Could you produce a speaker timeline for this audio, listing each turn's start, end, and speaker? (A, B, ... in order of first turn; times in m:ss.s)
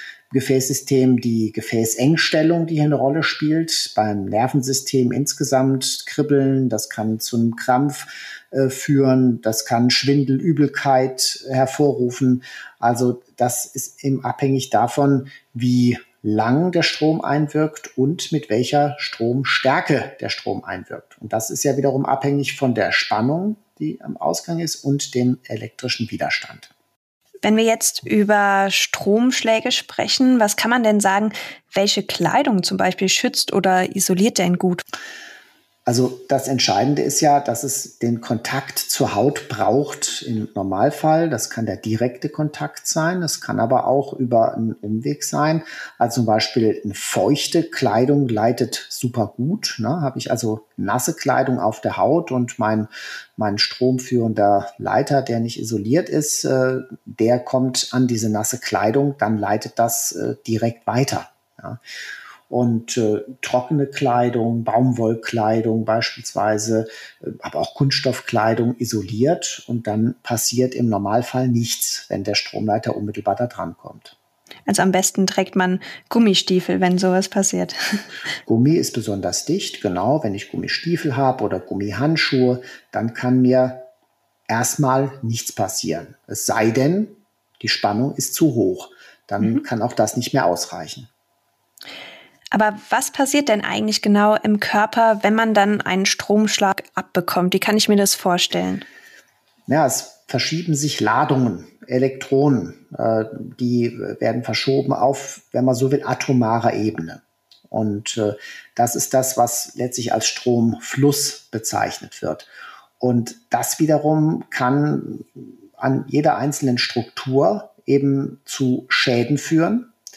0:00.3-0:26.7 A
0:27.4-0:34.8 B
0:35.9-1:01.8 A
1:02.5-1:14.1 A
1:14.7-1:18.0 B
1:18.4-1:23.9 A
1:24.5-1:31.1 A
1:32.5-1:38.8 B
1:39.7-1:52.5 A
1:53.0-1:59.9 A